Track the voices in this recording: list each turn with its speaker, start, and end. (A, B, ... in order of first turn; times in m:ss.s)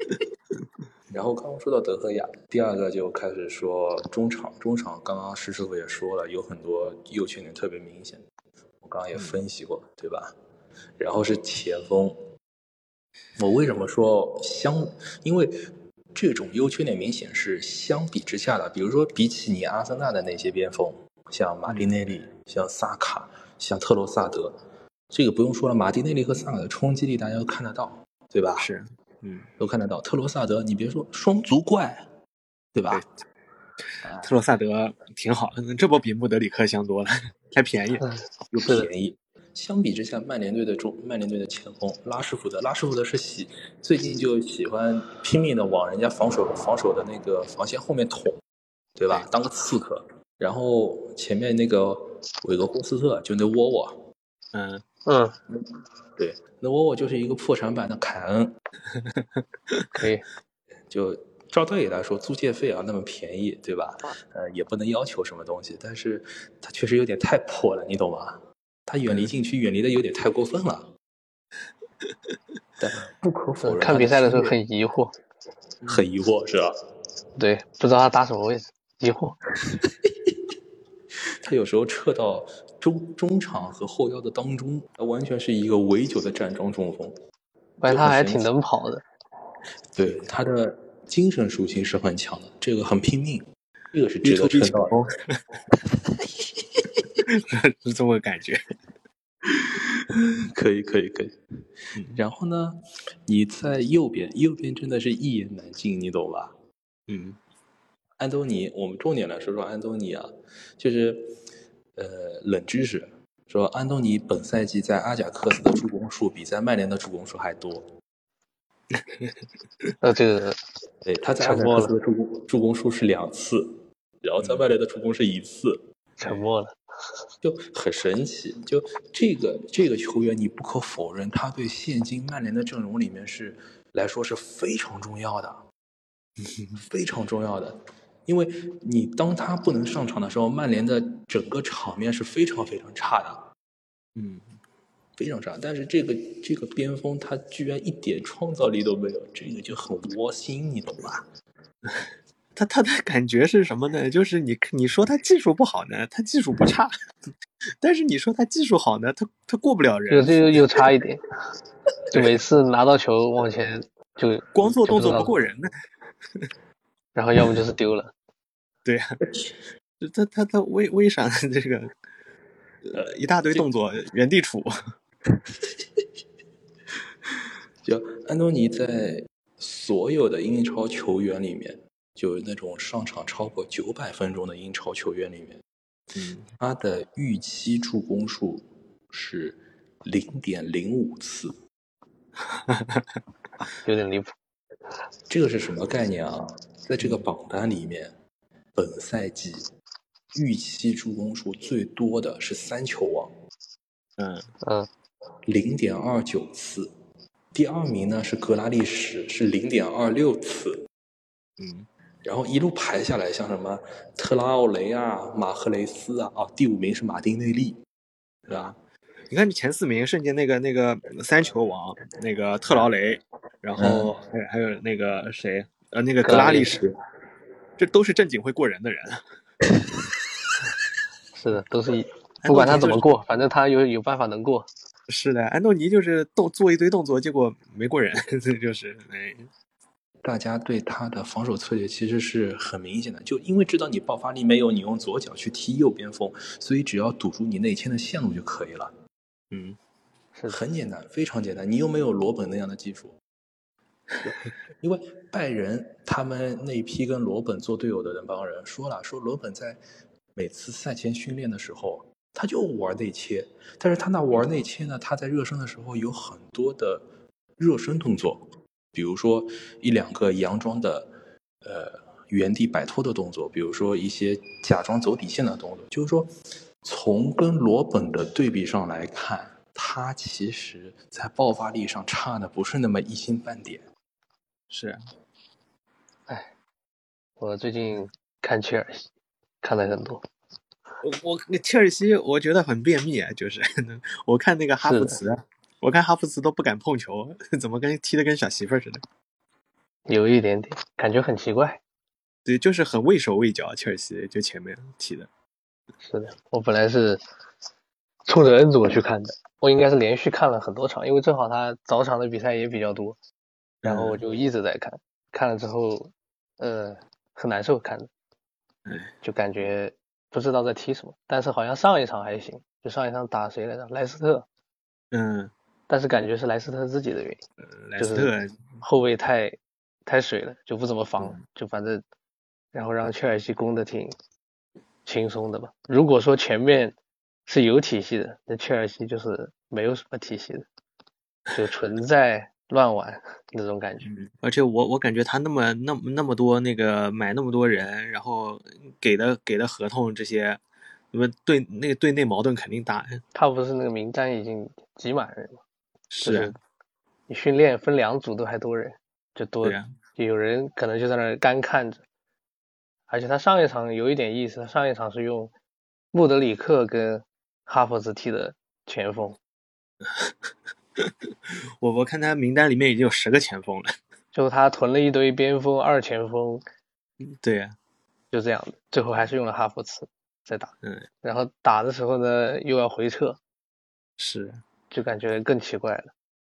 0:01.1-0:08.2 A
0:08.8-0:10.3 A
0:11.0-0:12.2 A
0:13.4-0:24.6 A
0:21.7-0:21.9 B
0:25.1-0:28.7 A
0:28.6-0:29.5 B
0:29.6-0:32.1 A
0:32.8-0:33.0 A
0:34.0-0:34.3 A
0:34.2-0:38.1 B
0:38.0-0:38.9 C
0:38.5-0:48.4 A
0:49.0-0:54.0 A
0:54.5-0:54.8 B
0:55.1-0:55.4 C
0:56.2-0:58.6 A
0:59.9-1:00.3 C
1:00.9-1:10.9 A
1:12.8-1:14.6 A
1:13.6-1:15.1 C
1:15.9-1:16.8 A
1:17.4-1:19.4 C
1:21.4-1:27.2 A
1:27.8-1:29.0 C
1:27.8-1:28.5 A
1:30.0-1:35.2 A
1:34.2-1:35.4 B
1:37.2-1:38.6 B
1:39.5-1:41.4 A
1:42.1-1:46.6 A
1:47.1-1:47.4 B
1:48.2-1:51.4 A
1:52.0-1:57.9 A
1:58.9-1:59.9 B
2:00.0-2:00.6 C
2:01.0-2:05.8 A
2:01.4-2:01.9 C
2:06.2-2:06.8 C
2:07.4-2:15.6 A
2:16.8-2:23.4 A
2:24.2-2:24.5 B
2:25.2-2:31.3 A
2:31.9-2:36.9 B
2:37.8-2:40.8 B
2:40.1-2:41.2 C
2:42.1-2:42.4 B
2:42.1-2:45.3 C
2:44.6-2:45.7 B
2:47.2-2:48.1 C
2:48.8-2:49.2 B
2:50.0-2:51.9 B
2:52.8-2:54.7 B
2:57.8-3:05.6 A
3:06.1-3:06.5 B
3:06.6-3:11.6 A
3:12.5-3:13.2 B
3:13.8-3:14.3 C
3:15.3-3:18.2 A
3:17.0-3:17.2 B
3:18.8-3:19.7 A
3:20.3-3:23.3 A
3:24.2-3:24.5 B
3:24.6-3:24.9 C
3:25.5-3:26.9 A
3:27.5-3:30.8 A
3:31.6-3:31.9 B
3:32.2-3:37.8 A
3:38.5-3:38.8 A
3:39.3-3:46.9 B
3:43.8-3:44.1 A
3:46.3-3:46.8 C
3:47.8-3:49.2 B
3:51.4-3:54.7 C
3:52.4-3:53.0 B
3:55.1-3:59.5 B
4:00.2-4:08.9 A
4:09.5-4:09.8 B
4:10.5-4:13.2 A
4:14.2-4:19.8 A
4:20.4-4:27.0 A
4:27.6-4:31.1 A
4:31.6-4:43.9 A
4:44.7-4:45.0 B
4:47.4-4:49.1 C
4:49.6-4:50.2 C
4:51.0-4:59.0 B
4:54.8-4:55.2 C
5:00.1-5:01.8 C
5:02.5-5:05.3 B
5:06.0-5:07.2 C
5:08.3-5:13.2 C
5:13.8-5:14.2 B
5:13.8-5:18.1 C
5:18.9-5:19.1 B
5:19.2-5:24.5 C
5:25.1-5:25.5 B
5:25.9-5:27.4 C
5:27.6-5:28.6 B
5:28.0-5:32.0 C
5:32.7-5:34.2 C
5:35.1-5:37.0 C
5:37.5-5:40.7 C
5:41.5-5:44.1 C
5:44.1-5:50.6 B
5:51.1-5:53.2 B
5:53.3-5:55.6 C
5:56.1-5:56.5 B
5:56.2-5:56.6 C
5:57.3-6:02.0 C
5:59.6-5:59.9 B
6:03.1-6:05.5 C
6:06.1-6:09.4 C
6:10.0-6:14.0 B
6:14.3-6:16.6 C
6:17.2-6:17.8 B
6:18.3-6:23.4 C
6:24.2-6:24.6 B
6:24.9-6:26.1 C